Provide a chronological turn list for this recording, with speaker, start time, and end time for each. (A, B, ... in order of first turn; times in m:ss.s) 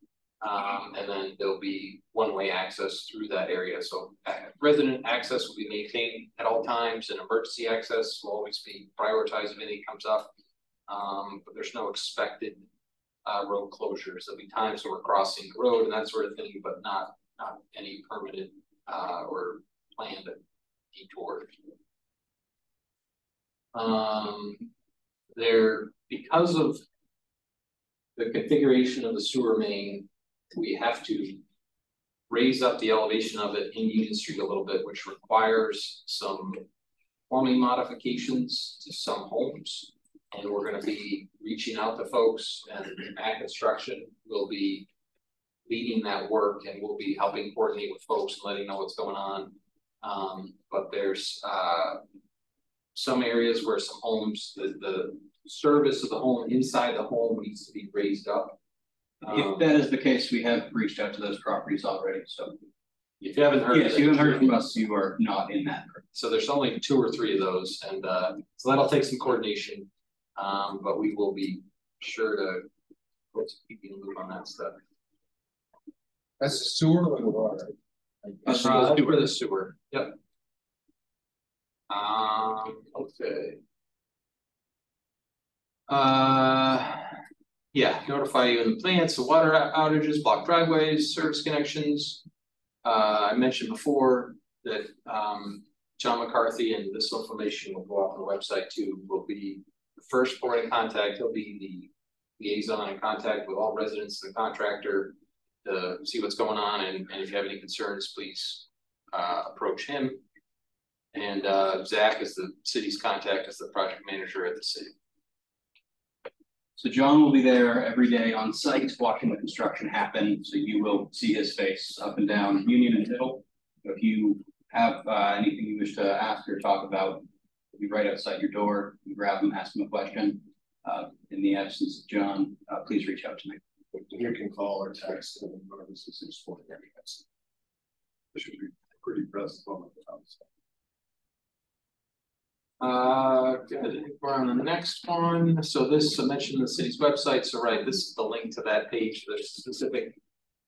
0:00.4-0:10.3 A
0:10.9-0:12.6 A
0:13.2-0:20.4 A
0:20.9-0:21.6 A
0:23.7-0:24.7 A
0:25.3-0:26.8 A
0:28.2-0:31.4 A
0:32.3-0:36.6 A
0:37.3-0:44.9 A
0:45.6-0:52.0 A
0:52.9-0:58.6 A
0:59.2-0:59.6 A
0:59.3-1:02.6 B
1:03.2-1:04.6 A
1:03.7-1:06.0 B
1:06.1-1:12.7 A
1:13.3-1:14.8 A
1:16.4-1:17.7 C
1:18.4-1:20.1 A
1:18.4-1:19.3 B
1:21.9-1:23.6 A
1:25.9-1:27.2 A
1:27.7-1:32.2 A
1:32.8-1:45.1 A
1:45.6-1:50.2 A
1:51.1-1:54.9 A
1:56.8-2:13.6 B
2:14.0-2:17.2 C
2:18.3-2:20.4 C
2:22.8-2:30.2 A